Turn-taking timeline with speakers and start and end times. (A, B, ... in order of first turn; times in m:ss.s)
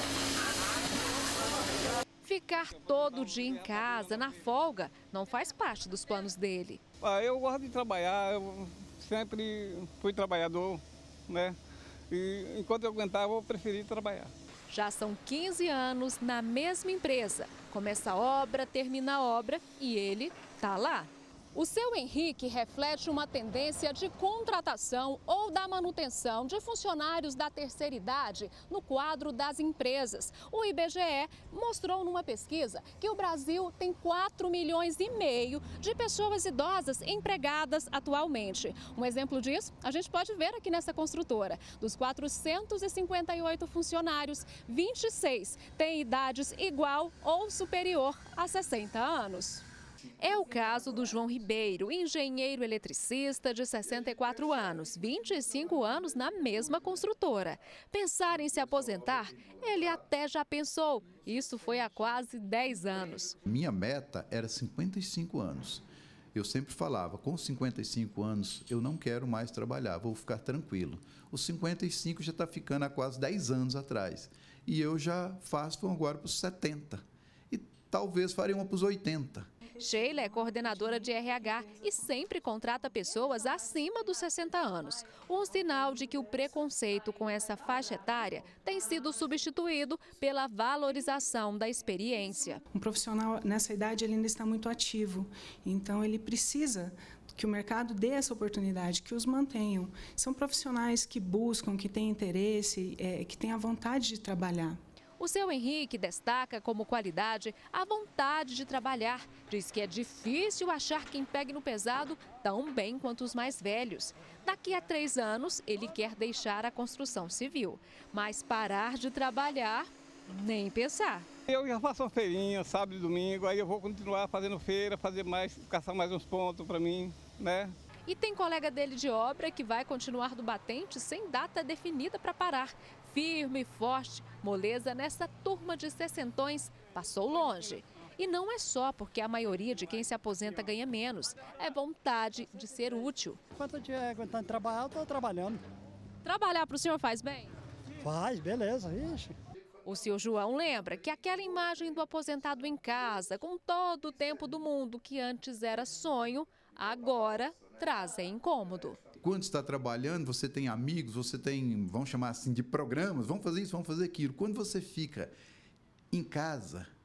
0:02.2-0:06.8 A
0:02.9-0:04.3 B
0:07.0-0:11.6 B
0:12.1-0:14.3 B
0:14.7-0:49.6 A
0:50.2-1:03.4 A
1:03.4-1:19.5 C
1:19.8-1:32.6 A
1:32.7-1:44.8 D
1:45.2-2:01.3 A
2:01.5-2:07.7 B
2:08.1-2:23.4 A
2:23.6-2:25.6 E
2:26.2-2:27.5 A
2:28.0-2:29.4 E
2:29.8-2:39.0 A
2:39.2-2:45.3 C
2:46.1-2:46.9 C